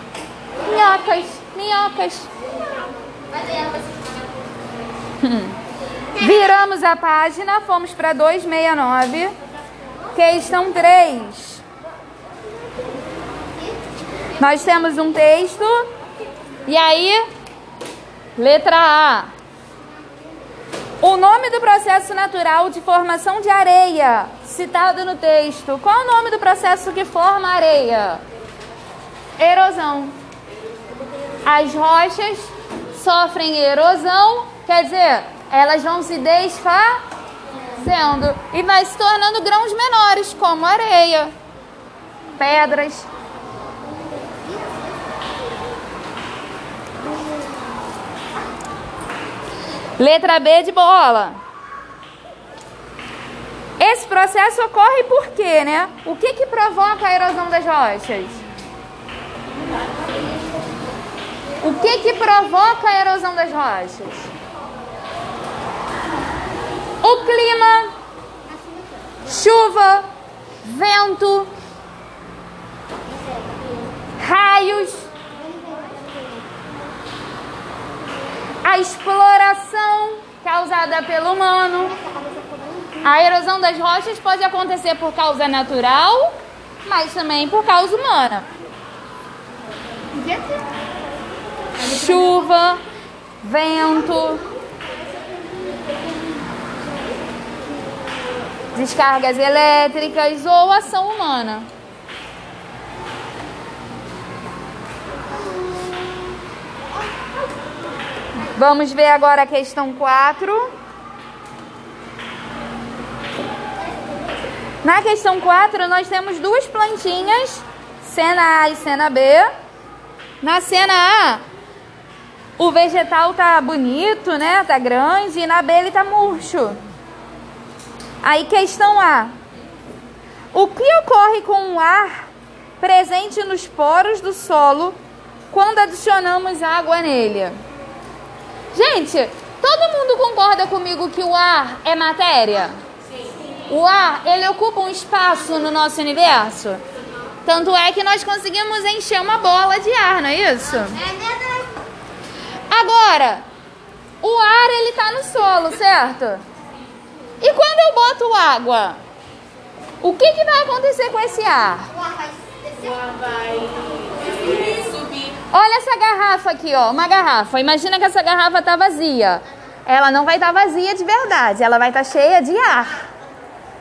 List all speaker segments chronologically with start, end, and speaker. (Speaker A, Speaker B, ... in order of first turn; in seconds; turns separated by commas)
Speaker A: 0.6-2.3, Speaker B: 3.3-4.3, Speaker A: 5.2-5.6, Speaker A: 6.2-9.3, Speaker A: 10.1-11.6, Speaker A: 14.4-15.8, Speaker A: 16.7-17.2, Speaker A: 18.4-19.3, Speaker A: 21.0-28.2, Speaker A: 29.4-30.2, Speaker A: 31.4-37.0, Speaker A: 37.7-41.3, Speaker A: 42.4-43.1, Speaker B: 44.3-44.9, Speaker A: 50.0-51.4, Speaker A: 53.8-58.4, Speaker A: 61.6-64.3, Speaker A: 67.0-67.9, Speaker A: 69.2-70.1, Speaker A: 70.6-71.5, Speaker B: 73.2-73.7, Speaker A: 74.2-75.1, Speaker B: 75.5-76.5, Speaker A: 78.6-82.0, Speaker B: 82.1-83.0, Speaker A: 83.0-88.5, Speaker A: 91.8-92.8, Speaker A: 93.4-94.5, Speaker B: 94.6-96.4, Speaker A: 98.7-101.7, Speaker A: 108.4-110.7, Speaker A: 114.8-119.5, Speaker A: 120.4-121.4, Speaker A: 122.6-126.8, Speaker A: 128.2-129.3, Speaker A: 130.5-132.3, Speaker A: 132.8-135.0, Speaker A: 135.5-137.5, Speaker A: 138.7-142.8, Speaker A: 143.7-146.8, Speaker A: 147.4-151.0, Speaker B: 150.9-151.7, Speaker A: 152.7-153.4, Speaker A: 154.2-156.4, Speaker A: 157.4-159.0, Speaker A: 160.0-161.9, Speaker B: 162.0-165.1, Speaker A: 165.5-173.1